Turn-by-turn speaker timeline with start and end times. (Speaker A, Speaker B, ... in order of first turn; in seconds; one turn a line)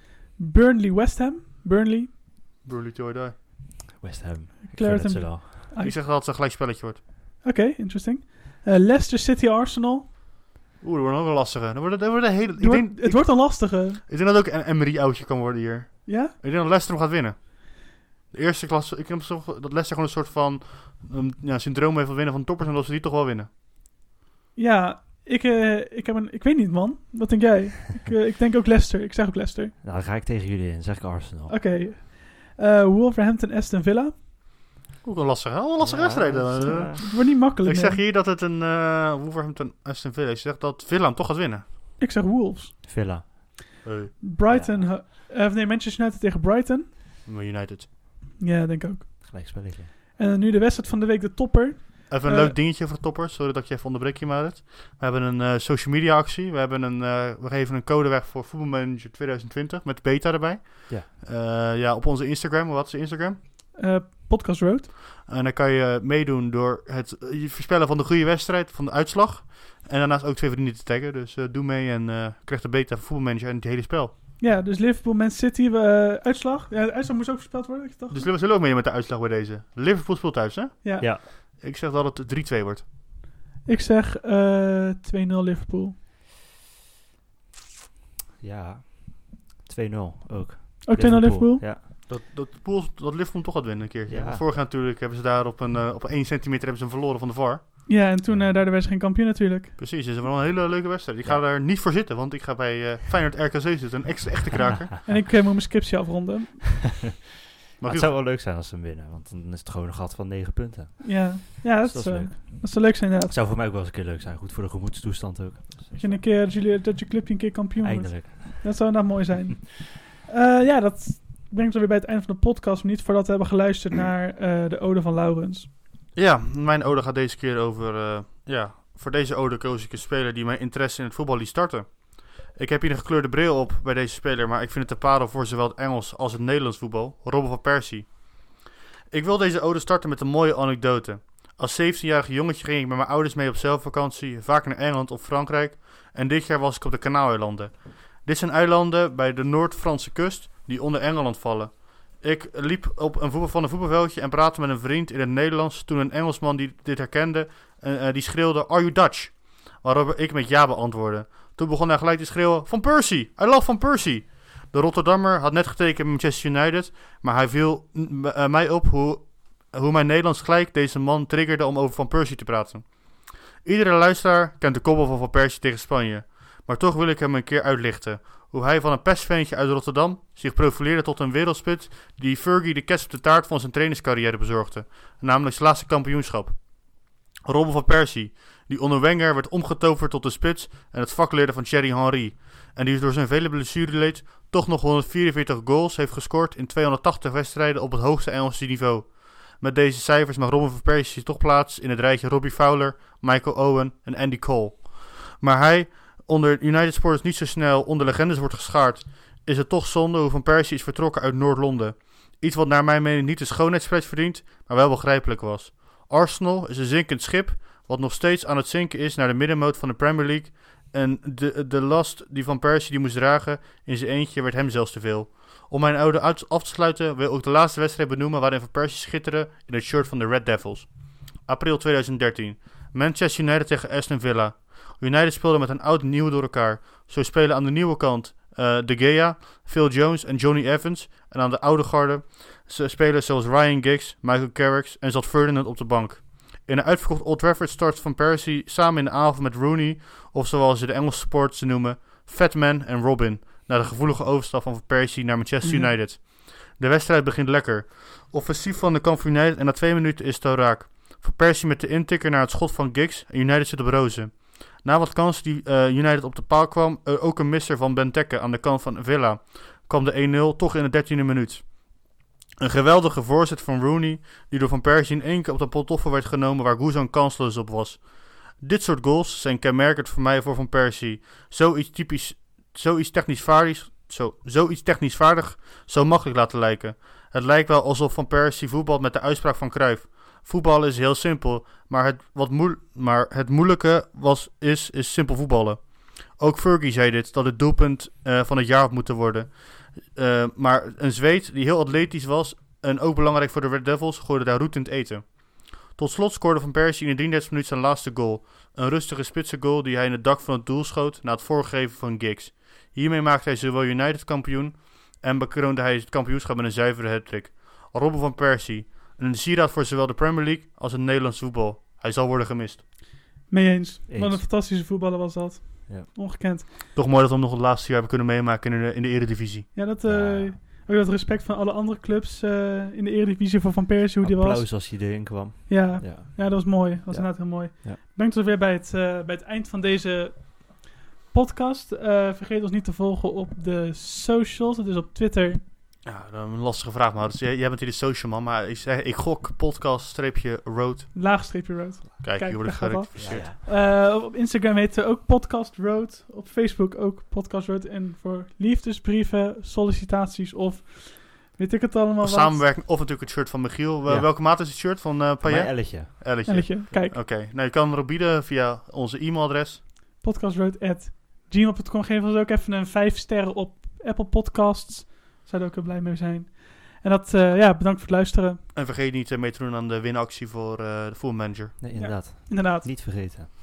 Speaker A: 0.3-2.1
Speaker B: 2.6-3.3
Speaker C: 3.9-5.7
Speaker A: 4.7-6.0
Speaker B: 5.8-7.0
Speaker A: 7.4-10.1
Speaker B: 10.8-23.5
Speaker A: 12.6-14.0
Speaker A: 16.1-16.3
Speaker A: 24.6-29.7
Speaker C: 29.8-31.6
Speaker A: 31.5-34.2
Speaker B: 35.0-41.7
Speaker C: 35.8-37.1
Speaker A: 37.0-38.0
Speaker A: 42.0-42.8
Speaker C: 42.8-43.3
Speaker B: 43.8-44.2
Speaker A: 44.2-46.9
Speaker C: 44.5-45.0
Speaker B: 47.2-47.9
Speaker A: 48.4-49.6
Speaker C: 49.2-49.9
Speaker A: 50.2-52.6
Speaker B: 52.1-63.4
Speaker A: 63.7-64.9
Speaker B: 65.2-74.1
Speaker A: 74.4-78.3
Speaker B: 78.1-82.8
Speaker A: 80.8-81.1
Speaker A: 83.6-85.9
Speaker C: 88.4-91.9
Speaker A: 90.8-91.6
Speaker B: 92.0-97.8
Speaker C: 94.1-94.4
Speaker A: 97.9-99.7
Speaker C: 98.2-98.5
Speaker B: 99.8-105.0
Speaker A: 105.0-106.9
Speaker B: 107.8-108.1
Speaker C: 107.8-116.2
Speaker A: 111.0-113.3
Speaker A: 116.0-125.7
Speaker C: 117.8-118.9
Speaker B: 126.1-138.4
Speaker B: 139.1-322.8
Speaker A: 255.6-255.9
Speaker A: 323.5-326.6
Speaker C: 324.1-324.5
Speaker B: 326.9-329.7
Speaker A: 329.7-345.6
Speaker C: 330.0-330.6
Speaker C: 334.2-338.0
Speaker B: 346.0-351.1
Speaker A: 351.1-362.7
Speaker B: 352.2-353.5
Speaker C: 353.2-353.6
Speaker B: 362.2-369.8
Speaker C: 364.1-364.3
Speaker C: 365.4-366.1
Speaker A: 366.4-367.2
Speaker A: 370.2-378.6
Speaker B: 378.7-381.8
Speaker C: 381.8-383.5
Speaker A: 381.9-382.9